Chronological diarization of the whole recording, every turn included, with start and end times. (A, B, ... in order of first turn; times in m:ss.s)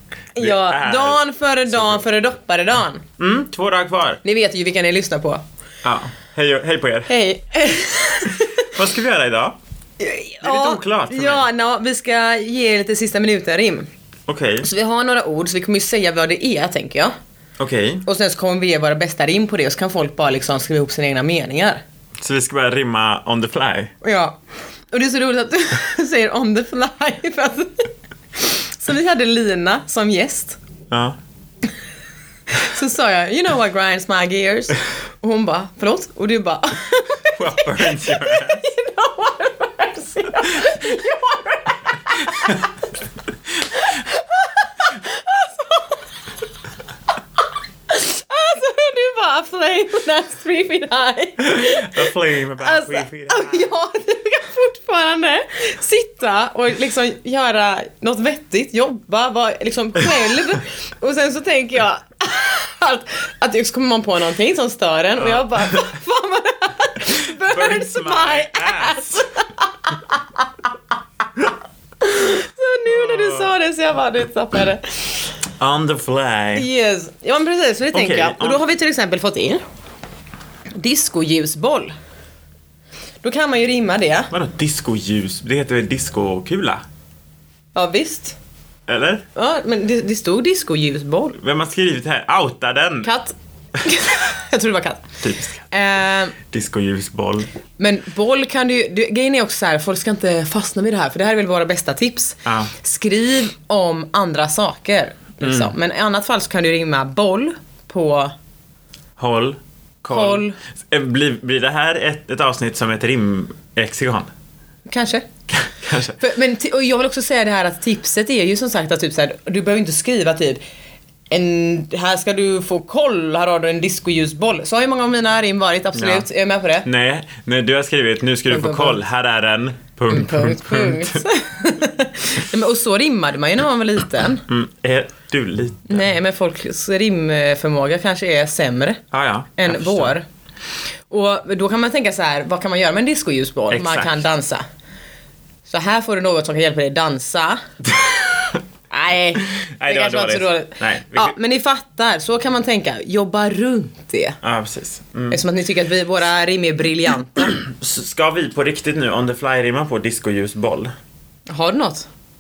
0:00.4-0:03.0 A
0:00.4-0:02.0 B
0:03.2-0:04.2 B
0:04.2-0:05.4 A
0:05.8-0:07.1 B
0:07.1-0:08.7 A
0:08.6-0:09.6 B
0:10.0-0:13.9 A
0:10.4-0:11.4 B
0:14.3-0:14.7 B
0:14.6-0:17.1 A
0:17.6-0:18.0 B
0:18.0-0:21.8 A
0:22.2-0:23.9 B
0:24.0-0:24.4 A
0:24.9-0:30.6 A
0:30.9-0:31.2 B
0:32.5-0:42.7 A
0:37.4-0:38.6 B
0:43.7-0:46.0 A
0:47.9-1:10.4 A
0:51.4-0:53.6 B
1:05.2-1:05.8 B
1:07.2-1:09.2 B
1:12.0-1:15.3 A
1:12.9-1:13.5 B
1:15.6-1:16.7 B
1:16.6-1:19.6 A
1:17.9-1:18.6 B
1:20.8-1:21.9 A
1:23.2-1:24.3 A
1:24.3-1:26.8 B
1:27.7-1:28.4 A
1:28.9-1:29.2 B
1:29.3-1:31.4 A
1:31.4-1:33.1 B
1:33.0-1:35.2 A
1:35.2-1:35.6 B
1:35.7-1:36.4 A
1:36.5-1:37.5 B
1:37.8-1:48.3 A
1:42.4-1:42.7 B
1:45.4-1:45.7 B
1:49.2-1:54.3 B
1:50.1-1:50.6 A
1:54.9-1:55.3 A
1:55.5-1:56.2 B
1:56.2-2:00.6 A
2:01.3-2:06.9 A
2:05.9-2:06.3 B
2:06.8-2:11.2 B
2:08.5-2:09.0 A
2:10.1-2:14.4 A
2:14.4-2:16.1 B
2:15.9-2:19.0 A
2:19.1-2:20.1 B
2:19.6-2:20.2 A
2:21.1-2:24.6 A
2:23.7-2:24.2 B
2:25.6-2:27.6 A
2:28.0-2:28.6 B
2:28.9-2:34.4 A
2:29.5-2:31.3 B
2:34.4-2:35.4 B
2:35.3-2:37.6 A
2:37.6-2:40.9 B
2:41.5-2:42.1 A